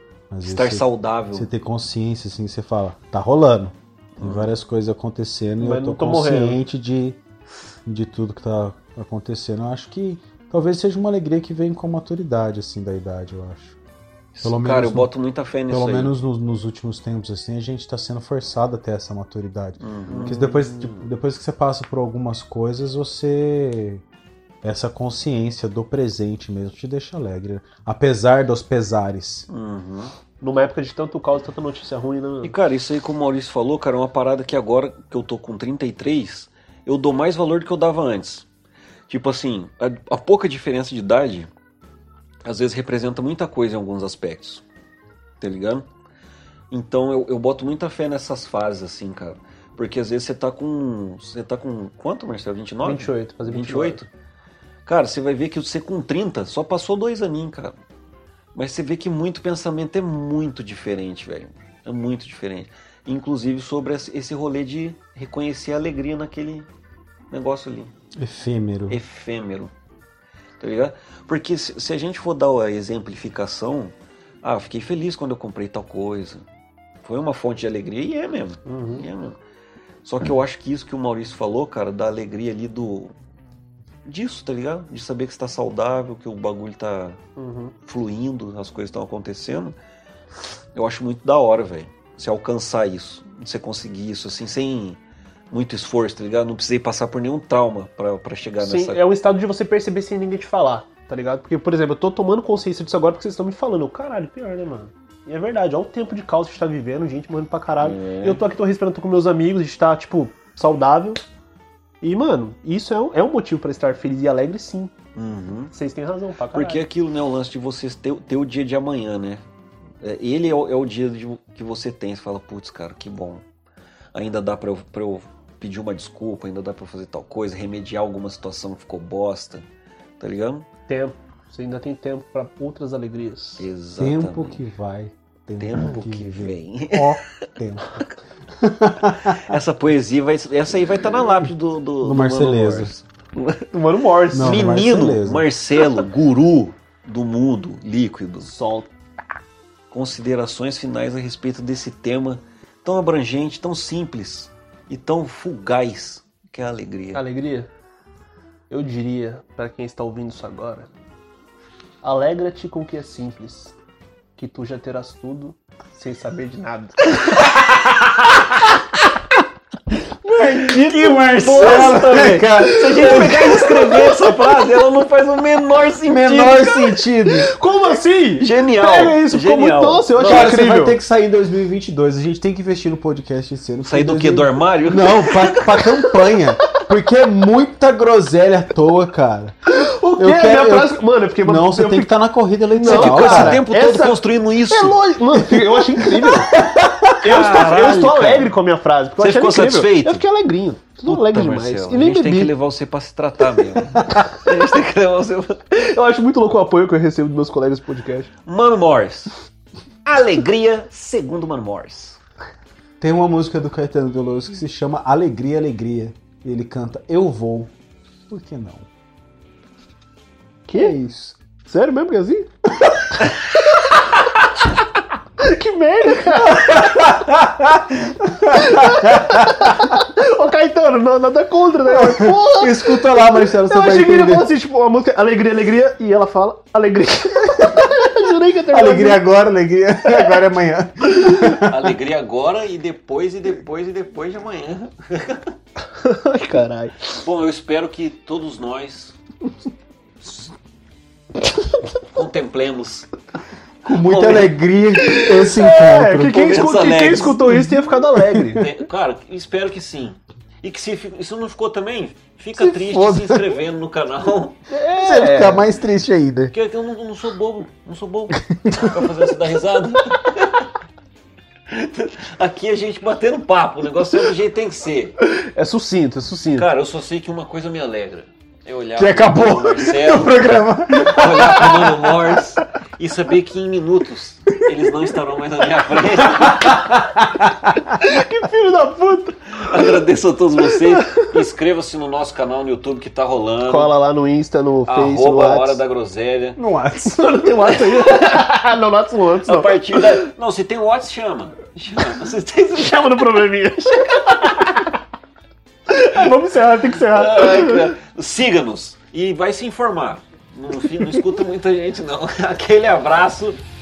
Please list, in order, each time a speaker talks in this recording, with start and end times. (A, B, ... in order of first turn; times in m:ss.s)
0:00.3-0:07.2 A
0:00.4-0:01.5 B
0:04.2-0:04.5 B
0:05.6-0:06.6 C
0:07.8-0:13.8 A
0:14.3-0:16.2 B
0:14.4-0:15.1 A
0:15.7-0:24.0 A
0:19.8-0:21.1 B
0:24.6-0:29.5 A
0:29.5-0:30.1 B
0:30.4-0:32.6 C
0:32.4-0:38.4 B
0:39.1-0:41.5 B
0:42.4-0:44.6 B
0:45.4-0:45.9 B
0:46.7-0:54.1 B
0:52.8-0:54.0 C
0:54.8-0:57.8 B
0:58.5-1:06.7 B
1:07.3-1:07.9 B
1:08.2-1:09.0 A
1:08.9-1:09.7 B
1:10.6-1:16.4 B
1:17.0-1:19.4 B
1:18.6-1:19.1 C
1:20.0-1:23.1 B
1:24.0-1:27.2 B
1:27.4-1:27.7 C
1:27.8-1:29.8 B
1:30.8-1:35.0 B
1:35.5-1:39.0 B
1:38.6-1:51.2 C
1:47.8-1:48.4 B
1:52.0-1:54.9 C
1:55.1-1:55.7 B
1:55.7-1:56.9 C
1:56.5-1:59.4 B
2:00.0-2:03.4 B
2:04.1-2:09.6 B
2:10.2-2:10.7 B
2:10.9-2:13.7 C
2:13.6-2:14.6 B
2:14.0-2:18.0 A
2:15.6-2:17.2 B
2:18.6-2:19.4 A
2:19.5-2:23.6 B
2:22.0-2:22.9 A
2:23.7-2:24.8 C
2:24.3-2:25.5 A
2:24.4-2:28.5 B
2:28.4-2:28.9 C
2:29.9-2:37.2 B
2:37.1-2:37.7 C
2:38.7-2:40.9 C
2:42.0-2:43.7 C
2:44.4-2:47.3 C
2:50.2-2:54.2 A
2:50.5-2:57.0 B
2:56.1-2:57.5 A
2:57.2-3:01.0 C
2:58.4-3:00.6 B
3:00.2-3:09.5 A
3:03.8-3:06.1 B
3:09.7-3:12.1 C
3:10.2-3:13.6 A
3:12.7-3:16.6 C
3:12.8-3:15.1 B
3:15.5-3:17.2 A
3:17.2-3:18.5 B
3:17.2-3:22.5 C
3:19.2-3:20.2 B
3:21.0-3:25.8 B
3:23.9-3:24.2 A
3:25.9-3:28.3 C
3:28.4-3:29.3 B
3:30.0-3:32.2 B
3:33.0-3:37.7 A
3:38.3-3:38.9 A
3:40.7-3:41.0 C
3:40.7-3:41.4 A
3:41.6-3:42.5 C
3:43.2-3:44.0 C
3:45.4-3:47.2 C
3:46.6-3:49.8 A
3:48.5-3:59.2 C
3:51.9-3:54.5 A
3:58.7-4:01.9 A
4:01.6-4:05.5 B
4:06.0-4:07.2 C
4:07.2-4:09.2 B
4:12.1-4:13.1 B
4:13.8-4:16.6 A
4:13.9-4:14.6 B
4:15.1-4:18.7 C
4:16.3-4:17.4 B
4:17.3-4:18.6 A
4:18.5-4:24.7 B
4:22.6-4:23.6 A
4:24.7-4:25.7 C
4:25.0-4:26.5 A
4:26.5-4:30.7 B
4:28.3-4:29.2 A
4:31.7-4:35.1 B
4:35.2-4:36.7 C
4:36.5-4:47.0 B
4:39.0-4:42.6 A
4:46.4-4:47.8 A
4:48.0-4:50.0 C
4:49.6-4:53.9 B
4:50.8-4:51.3 C
4:53.6-4:55.8 C
4:54.8-4:56.6 B
4:56.6-4:57.3 A
4:57.0-5:00.0 C
4:59.4-5:03.2 B
5:02.7-5:05.0 C
5:05.9-5:07.9 C
5:07.0-5:13.6 B